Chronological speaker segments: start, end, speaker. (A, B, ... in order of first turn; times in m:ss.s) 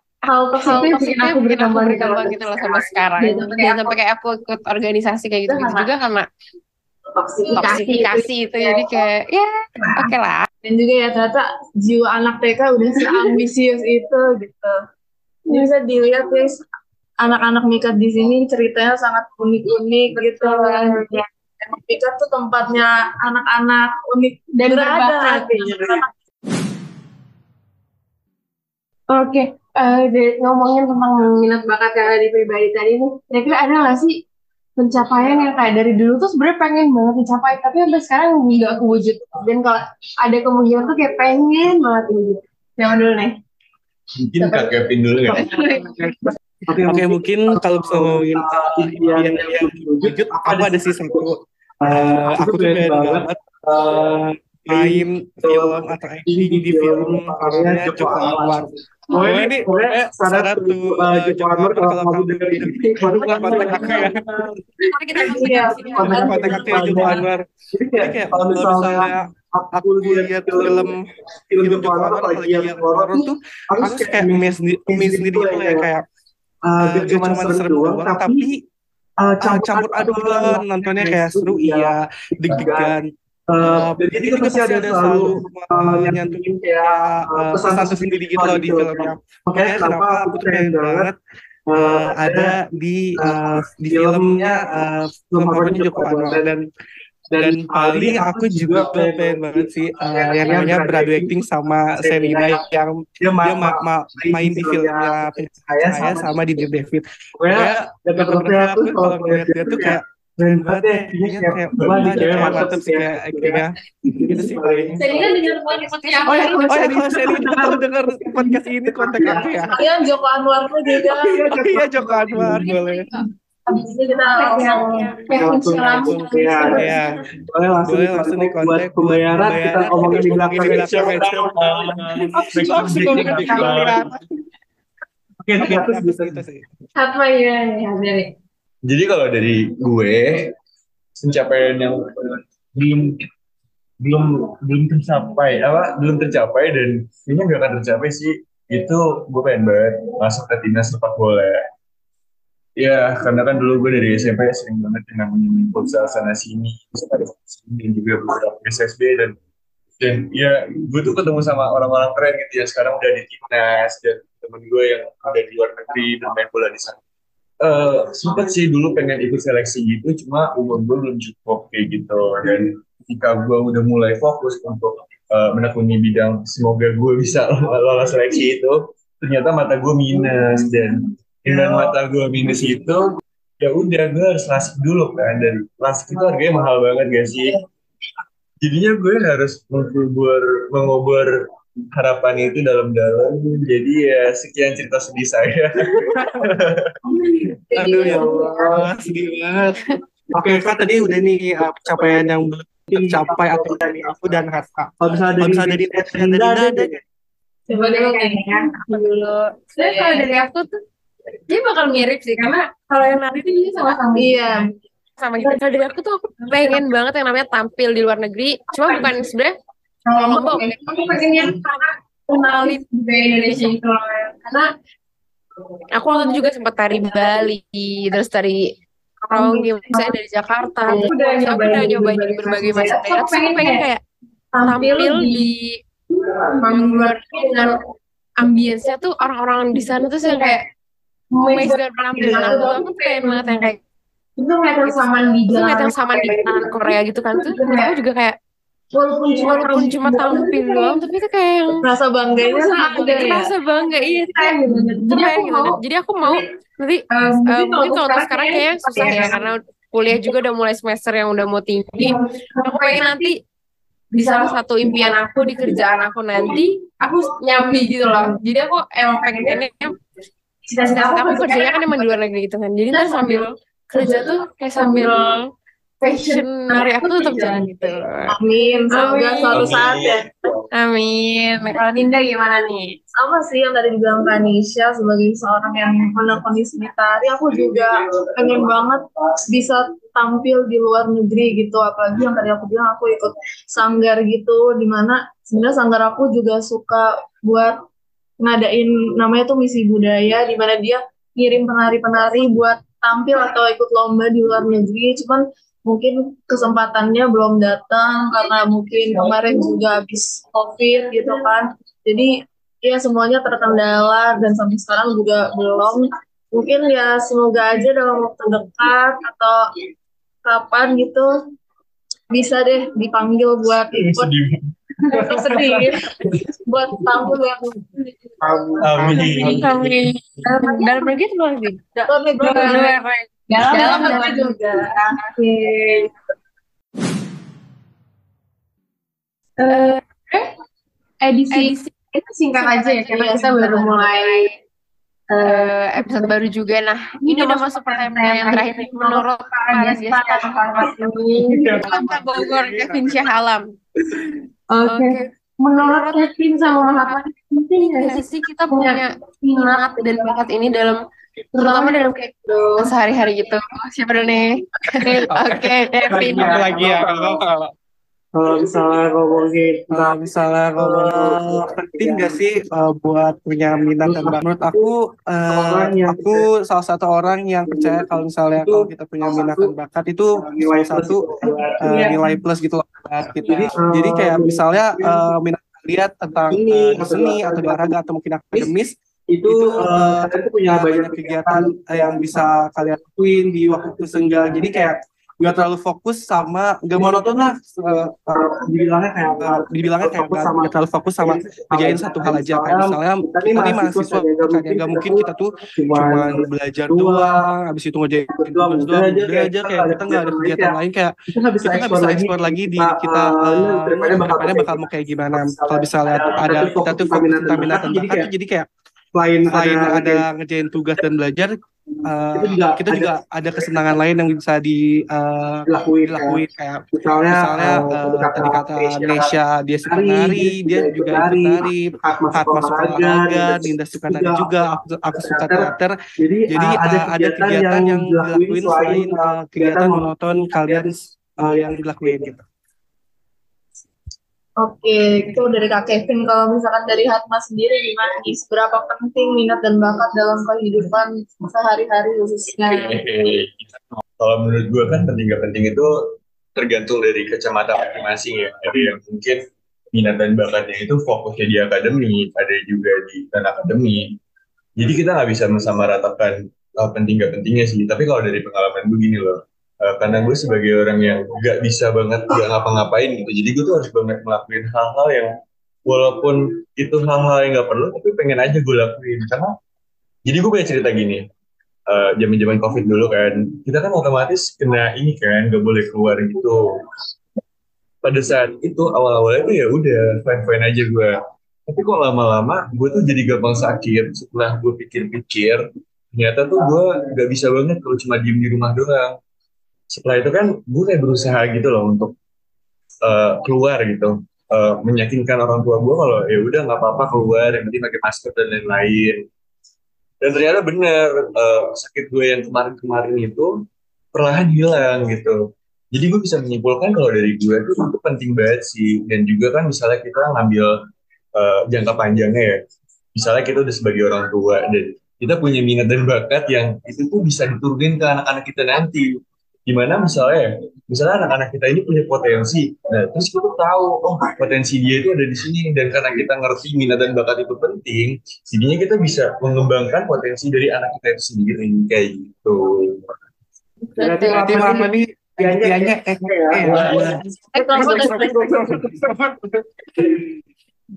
0:00.3-0:04.0 A
0:00.6-0:06.3 B
0:05.5-0:05.9 A
0:07.2-0:09.0 A
0:07.6-0:10.5 B
0:09.8-0:10.1 A
0:10.6-0:14.8 C
0:13.0-0:13.4 A
0:15.5-0:16.6 C
0:17.2-0:26.1 C
0:24.6-0:26.0 A
0:29.1-0:34.2 A
0:34.8-0:43.4 A
0:44.2-0:45.5 D
0:44.4-0:46.3 A
0:46.7-0:51.3 E
0:46.8-0:54.0 F
0:51.8-1:04.1 E
0:54.7-1:04.6 F
1:03.4-1:04.1 B
1:04.9-1:07.0 B
1:05.3-1:07.2 C
1:05.3-1:05.7 A
1:05.4-1:11.0 E
1:06.1-1:07.5 F
1:08.0-1:11.1 F
1:11.5-1:15.9 E
1:11.6-1:16.0 F
1:16.6-1:18.5 E
1:16.8-1:18.6 F
1:19.2-1:23.0 E
1:19.4-1:23.1 F
1:23.5-1:31.1 E
1:23.6-1:31.2 F
1:31.7-1:32.6 E
1:31.8-1:36.6 F
1:33.2-1:36.6 E
1:37.3-1:41.4 E
1:37.4-1:53.8 F
1:42.0-1:42.7 E
1:43.2-1:46.6 E
1:47.4-1:55.4 E
1:51.8-1:52.4 D
1:54.3-1:55.0 F
1:55.0-1:57.7 A
1:55.1-1:56.8 B
1:56.6-1:59.8 F
1:56.9-1:59.7 E
1:59.7-2:01.5 C
2:01.0-2:02.7 E
2:01.5-2:03.1 F
2:02.4-2:07.0 A
2:03.8-2:05.2 C
2:04.9-2:05.3 B
2:05.4-2:07.0 E
2:06.0-2:07.2 F
2:07.5-2:11.5 E
2:07.8-2:11.6 F
2:10.6-2:14.0 D
2:12.4-2:14.2 F
2:13.1-2:13.7 E
2:15.4-2:16.4 E
2:15.6-2:16.7 F
2:17.0-2:18.3 A
2:18.9-2:20.5 D
2:21.2-2:23.2 D
2:24.0-2:31.6 D
2:32.8-2:39.4 D
2:40.0-2:47.0 D
2:47.6-3:03.0 D
3:03.6-3:07.6 D
3:08.6-3:11.3 D
3:11.9-3:16.9 D
3:17.7-3:19.8 F
3:17.7-3:18.4 C
3:18.0-3:18.9 E
3:20.3-3:24.5 E
3:20.4-3:26.9 F
3:25.0-3:27.0 E
3:27.7-3:28.7 C
3:27.7-3:30.5 A
3:28.9-3:30.8 B
3:31.5-3:32.4 B
3:31.5-3:34.6 A
3:34.2-3:34.7 C
3:35.2-3:39.6 B
3:36.5-3:36.8 A
3:38.8-3:39.2 A
3:40.1-3:44.7 A
3:40.1-3:41.8 B
3:43.4-3:43.7 B
3:45.9-3:48.7 B
3:46.1-3:46.4 A
3:49.3-3:50.1 A
3:49.3-3:54.0 B
3:50.9-3:53.8 A
3:54.5-3:55.4 A
3:54.6-3:55.8 B
3:56.1-3:57.8 A
3:56.6-3:57.8 B
3:58.4-4:00.6 B
4:00.0-4:00.6 A
4:01.3-4:03.7 A
4:01.5-4:03.8 B
4:04.4-4:07.9 A
4:04.8-4:08.4 B
4:08.9-4:11.1 A
4:09.4-4:11.8 B
4:11.8-4:13.5 C
4:12.4-4:13.5 A
4:12.9-4:14.6 B
4:14.2-4:16.4 A
4:15.1-4:23.4 B
4:17.1-4:19.4 A
4:22.0-4:23.3 A
4:24.1-4:30.0 B
4:24.1-4:28.4 A
4:29.1-4:29.6 A
4:30.7-4:32.2 A
4:30.8-4:35.4 B
4:32.9-4:35.3 A
4:36.0-4:38.0 A
4:36.0-4:38.4 B
4:38.4-4:40.2 C
4:38.9-4:39.8 A
4:38.9-4:39.8 B
4:39.5-4:40.3 D
4:40.8-4:43.0 B
4:43.1-4:57.8 C
4:58.4-5:12.3 C
5:12.8-5:19.6 C
5:20.4-5:21.3 C
5:22.3-5:24.3 C
5:24.0-5:24.7 D
5:25.1-5:26.1 C
5:26.7-5:27.8 C
5:28.4-5:29.8 E
5:28.8-5:29.9 D
5:29.2-5:31.8 B
5:29.2-5:29.6 A
5:30.4-5:31.1 A
5:32.0-5:32.9 C
5:32.4-5:33.0 A
5:32.5-5:34.6 B
5:33.5-5:36.1 A
5:33.7-5:34.9 C
5:39.6-5:40.5 A
5:39.7-5:40.0 B
5:41.2-5:44.5 A
5:41.5-5:41.9 B
5:42.6-5:44.6 B
5:45.3-5:46.4 A
5:45.4-5:53.7 B
5:47.2-5:52.5 A
5:54.7-6:00.5 A
5:54.9-5:57.2 B
5:58.0-5:59.2 B
5:59.7-6:01.0 B
6:01.5-6:02.9 A
6:01.6-6:02.2 B
6:02.8-6:06.7 B
6:05.0-6:05.3 A
6:05.3-6:07.7 F
6:06.2-6:07.4 E
6:08.4-6:12.4 E
6:09.9-6:28.9 F
6:14.0-6:14.9 E
6:15.5-6:16.5 E
6:17.7-6:19.8 E
6:20.4-6:22.4 E
6:23.4-6:25.3 E
6:26.5-6:28.0 E
6:29.3-6:32.5 E
6:29.5-6:38.4 F
6:33.7-6:34.9 E
6:37.0-6:37.5 E
6:38.3-6:47.4 E
6:39.4-6:58.7 F
6:48.3-6:50.8 E
6:51.3-6:58.3 E
6:59.2-7:00.2 E
6:59.4-7:16.0 F
7:02.3-7:04.0 E
7:05.7-7:20.1 E
7:16.5-7:22.4 F
7:24.6-7:33.0 C
7:32.5-7:39.4 D
7:39.9-7:44.2 D
7:44.8-7:55.3 D
7:55.9-7:59.5 D
8:00.3-8:01.2 D
8:01.9-8:06.6 D
8:08.0-8:19.2 D
8:19.9-8:22.1 D
8:23.0-8:29.2 D
8:30.2-8:33.6 D
8:34.1-8:35.4 D
8:35.9-8:40.8 D
8:41.4-8:42.6 D
8:43.2-8:49.1 D
8:49.7-9:03.0 D
9:04.0-9:04.8 B
9:04.0-9:07.1 E
9:04.4-9:10.2 F
9:06.8-9:08.9 C
9:07.8-9:08.2 B
9:07.8-9:08.2 E